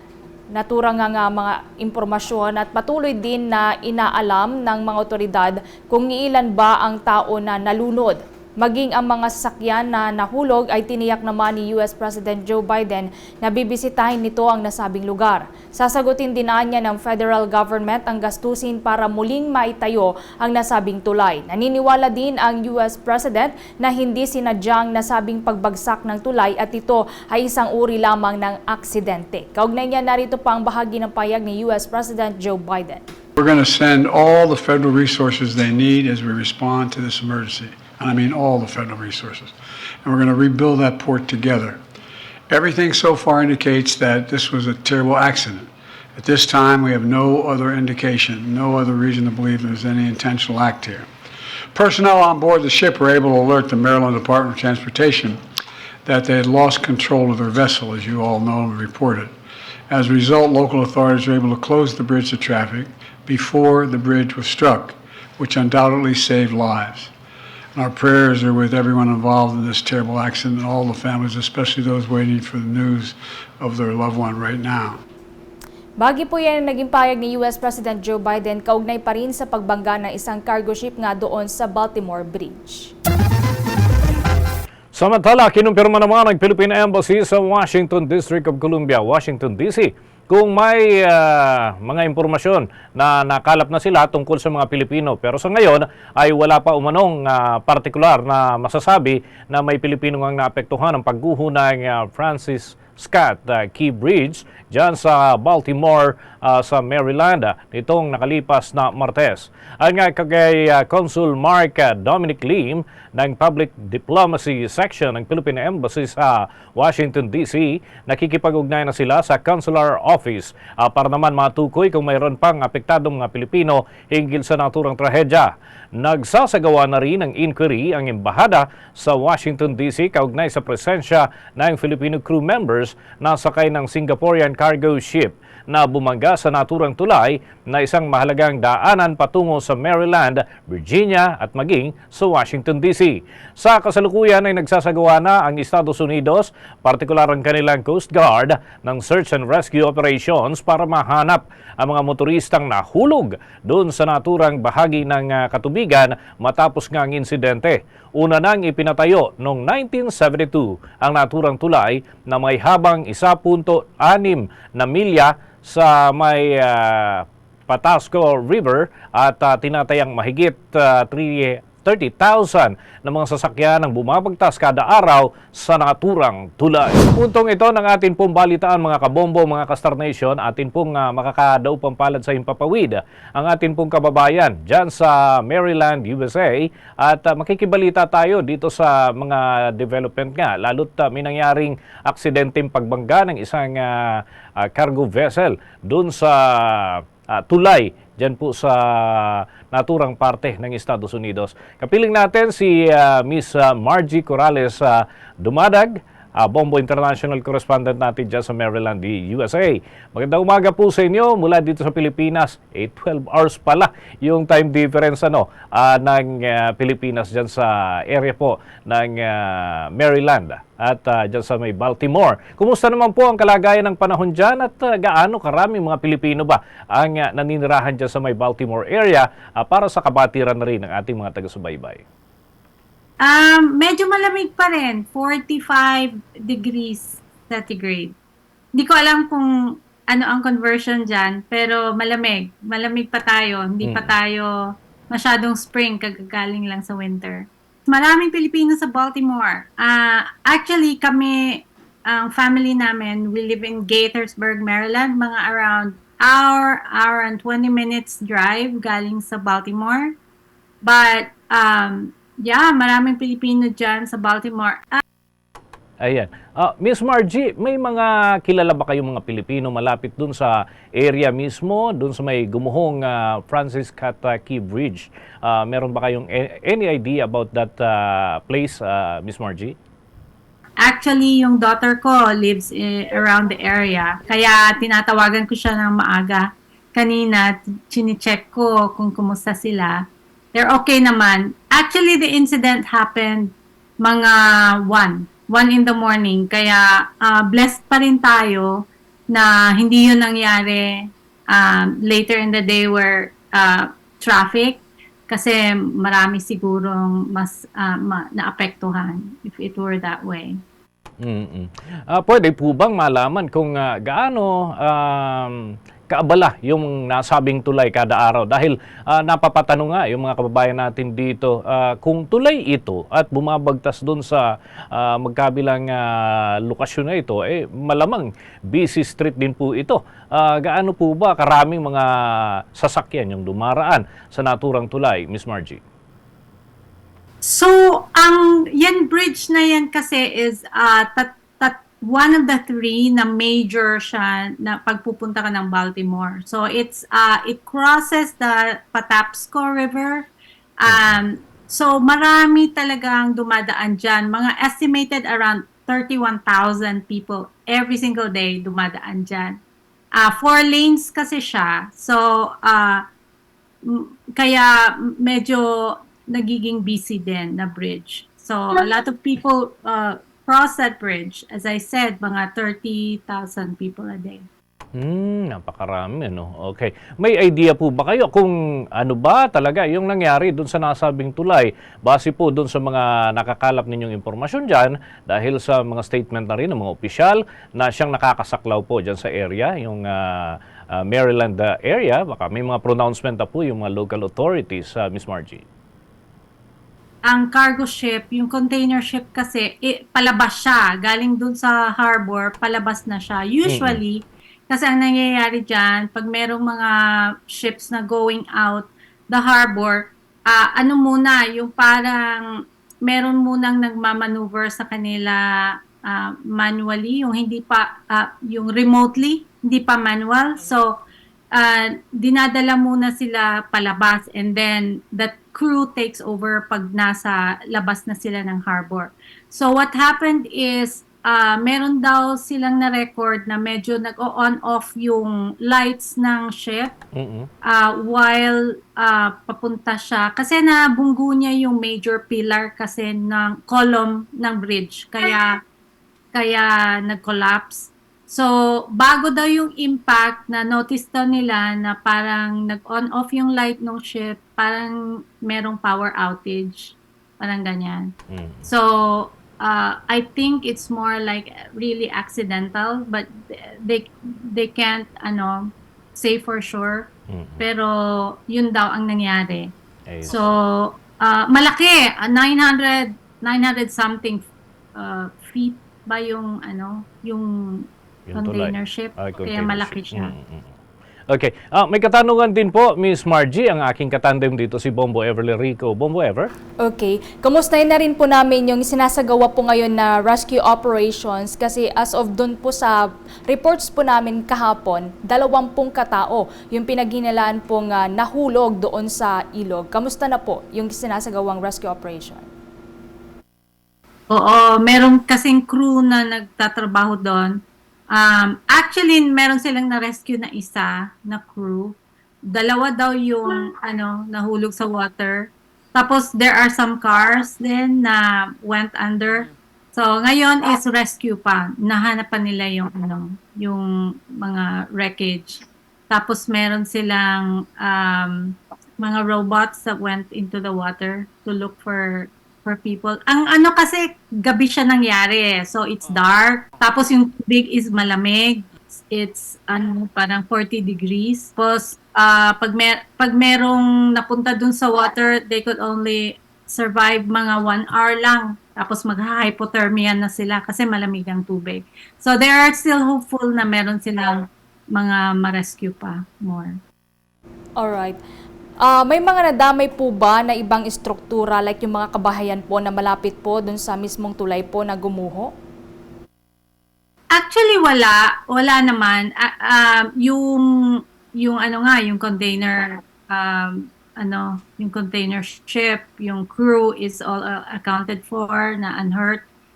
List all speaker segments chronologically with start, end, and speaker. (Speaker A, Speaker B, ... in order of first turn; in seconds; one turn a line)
Speaker A: 0.6-33.0
Speaker B: 33.4-39.5
Speaker B: 40.0-41.8
Speaker B: 42.5-51.0
Speaker B: 51.7-55.4
Speaker B: 56.0-59.3
Speaker B: 59.9-67.1
Speaker B: 67.7-75.0
Speaker A: 76.0-82.9
Speaker C: 84.9-232.0
Speaker D: 233.2-238.2
Speaker D: 238.8-239.5
Speaker D: 240.1-244.5
Speaker C: 243.8-244.1
Speaker D: 245.1-260.1
Speaker D: 260.8-265.0
Speaker C: 266.0-279.8
Speaker D: 280.8-310.6
Speaker C: 311.2-335.8
Speaker D: 337.4-359.6
Speaker C: 350.9-351.2
Speaker D: 360.2-363.0
Speaker D: 363.8-374.4
Speaker C: 374.9-395.6
Speaker D: 397.3-406.9
Speaker C: 403.6-404.0
Speaker D: 407.5-412.5
Speaker D: 413.1-415.4
Speaker D: 416.1-420.9
Speaker D: 421.5-436.9
Speaker C: 437.1-437.5
Speaker D: 437.7-445.6
Speaker D: 446.3-458.1
Speaker C: 458.3-458.6
Speaker D: 458.6-469.7
Speaker C: 467.3-467.6
Speaker C: 470.1-470.4
Speaker D: 470.3-480.3
Speaker C: 478.3-480.7
Speaker C: 481.3-486.5
Speaker A: 486.8-492.9
Speaker A: 493.5-502.4
Speaker D: 504.3-507.6
Speaker D: 508.1-512.0
Speaker D: 512.5-523.9
Speaker D: 524.4-554.4
Speaker D: 555.0-556.8
Speaker A: 557.8-558.2
Speaker A: 558.8-565.5
Speaker D: 567.4-570.7
Speaker D: 571.4-579.5